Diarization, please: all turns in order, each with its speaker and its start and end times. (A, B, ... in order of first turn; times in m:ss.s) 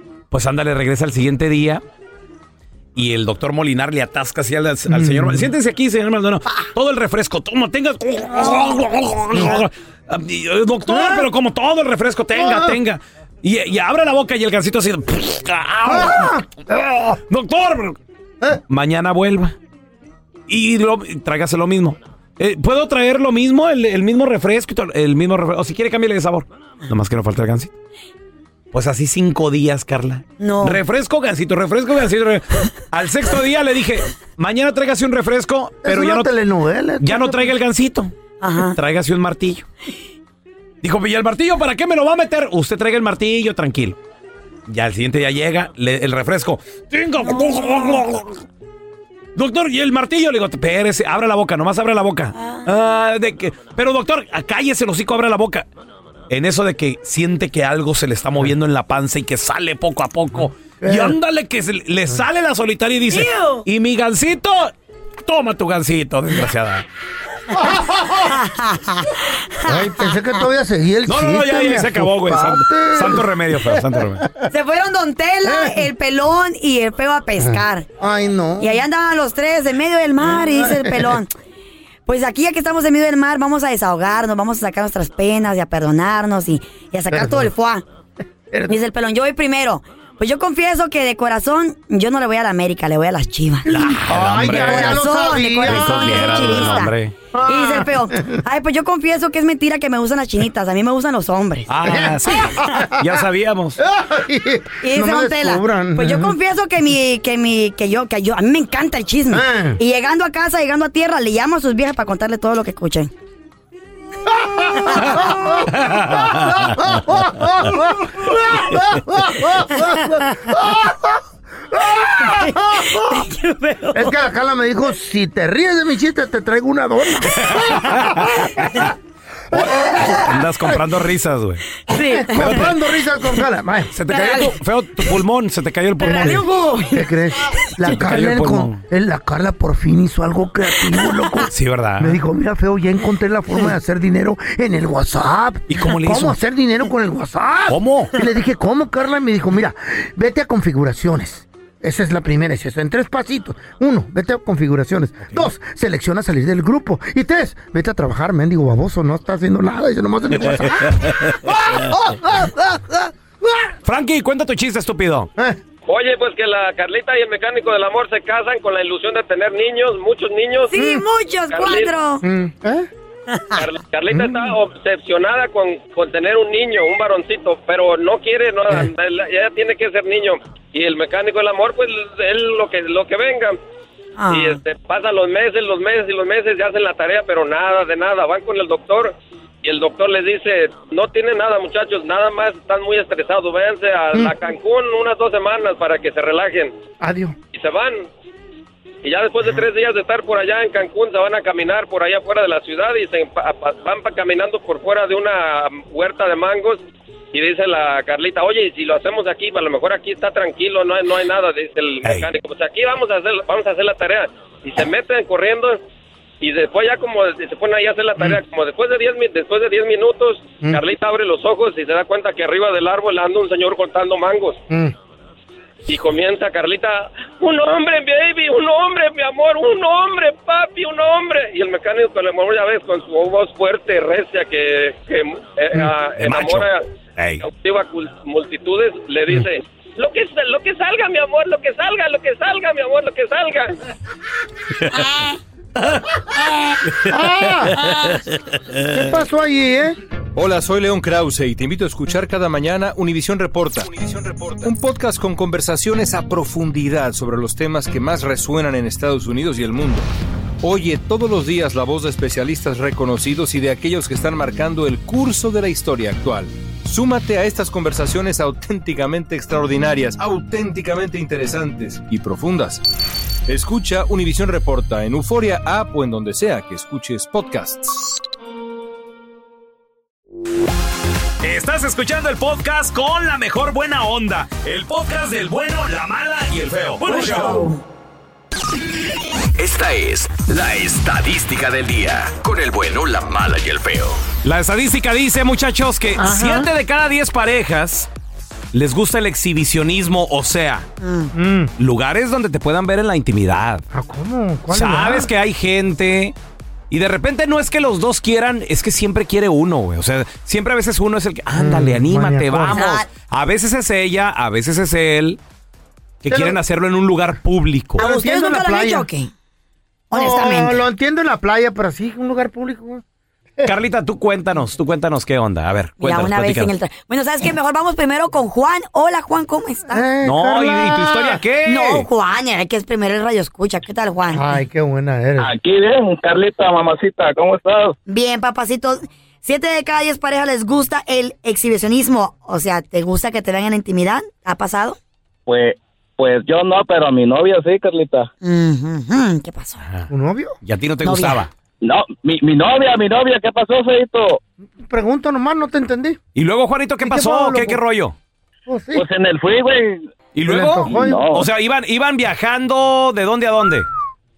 0:00.3-0:01.8 A
0:02.9-0:16.3 A
0:04.9-0:05.5 B
0:09.3-0:09.6 B
0:10.9-0:11.3 B
0:12.3-0:12.8 B
0:15.8-0:17.2 B
0:17.3-0:18.0 A
0:18.7-0:19.5 A
0:20.5-0:27.7 A
0:28.7-0:36.3 A
0:30.4-0:30.8 C
0:35.8-0:37.5 B
0:37.0-0:39.6 A
0:38.4-0:38.8 C
0:40.8-0:44.0 A
0:44.7-0:48.4 A
0:47.2-0:48.0 C
0:49.4-0:55.6 A
0:52.4-0:52.6 C
0:56.3-1:04.7 A
1:00.4-1:01.2 B
1:03.1-1:03.6 C
1:05.2-1:06.8 A
1:07.5-1:08.4 B
1:08.3-1:09.8 C
1:09.6-1:14.0 B
1:11.0-1:14.3 A
1:14.5-1:17.8 C
1:15.4-1:15.8 B
1:17.4-1:18.8 B
1:18.6-1:21.3 C
1:20.2-1:21.2 B
1:22.0-1:27.8 C
1:27.1-1:27.5 B
1:28.5-1:28.8 B
1:28.7-1:33.8 C
1:33.7-1:35.0 A
1:34.0-1:38.4 B
1:34.4-1:36.9 C
1:35.6-1:37.1 A
1:37.4-1:41.7 C
1:41.7-1:43.8 A
1:41.8-1:43.2 B
1:43.8-1:46.3 B
1:44.8-1:53.1 C
1:49.3-1:49.8 B
1:54.3-2:01.1 B
1:55.8-1:56.7 A
2:01.7-2:03.2 B
2:03.1-2:04.0 C
2:03.9-2:08.8 B
2:07.4-2:08.4 A
2:09.5-2:10.8 B
2:09.5-2:11.6 A
2:11.9-2:12.7 C
2:12.1-2:14.5 B
2:12.4-2:12.6 A
2:13.9-2:16.4 A
2:14.1-2:14.5 C
2:16.0-2:17.0 C
2:16.0-2:43.7 B
2:17.9-2:18.8 A
2:21.5-2:22.2 A
2:25.7-2:26.4 A
2:27.7-2:28.1 A
2:40.5-2:41.2 A
2:43.8-2:45.3 A
2:45.9-2:50.7 D
2:50.7-2:52.2 C
2:50.7-2:51.0 B
2:51.5-2:51.9 D
2:52.2-2:52.9 B
2:53.5-3:03.6 D
2:54.1-2:54.5 B
3:04.2-3:04.6 C
3:04.3-3:16.7 D
3:17.0-3:17.4 B
3:17.5-3:18.1 D
3:19.0-3:26.8 D
3:27.3-3:35.8 D
3:32.0-3:32.3 A
3:36.4-3:44.6 D
3:45.9-3:56.8 D
3:55.7-3:57.4 A
3:57.4-4:03.8 D
4:07.1-4:07.8 B
4:07.8-4:08.1 A
4:08.9-4:10.0 B
4:10.4-4:20.1 E
4:20.6-4:32.8 E
4:33.5-4:38.1 E
4:41.4-4:47.7 A
4:47.0-4:47.8 C
4:49.6-4:54.2 F
4:54.4-4:58.1 A
4:56.2-4:56.6 B
4:58.7-5:00.9 A
5:01.0-5:01.3 C
5:01.3-5:01.7 B
5:01.8-5:03.8 A
5:03.9-5:05.3 B
5:04.7-5:06.3 A
5:06.9-5:15.4 A
5:11.5-5:12.8 B
5:12.7-5:13.1 C
5:16.2-5:18.0 A
5:16.3-5:16.6 B
5:18.0-5:19.1 B
5:18.0-5:19.3 C
5:20.1-5:20.8 C
5:20.1-5:23.0 B
5:23.6-5:26.7 A
5:26.0-5:30.0 C
5:29.9-5:31.4 B
5:30.2-5:32.1 A
5:31.6-5:34.4 C
5:34.3-5:35.5 B
5:35.4-5:38.0 G
5:38.1-5:45.0 C
5:45.5-5:48.3 G
5:48.4-5:49.8 C
5:50.1-5:50.5 B
5:50.6-5:51.5 A
5:51.0-5:51.4 C
5:51.8-5:54.4 G
5:54.6-5:56.2 B
5:56.3-5:58.1 A
5:57.0-5:57.8 B
5:58.6-5:59.0 B
5:58.9-6:00.1 G
6:00.3-6:03.9 A
6:00.4-6:01.2 B
6:00.9-6:01.5 G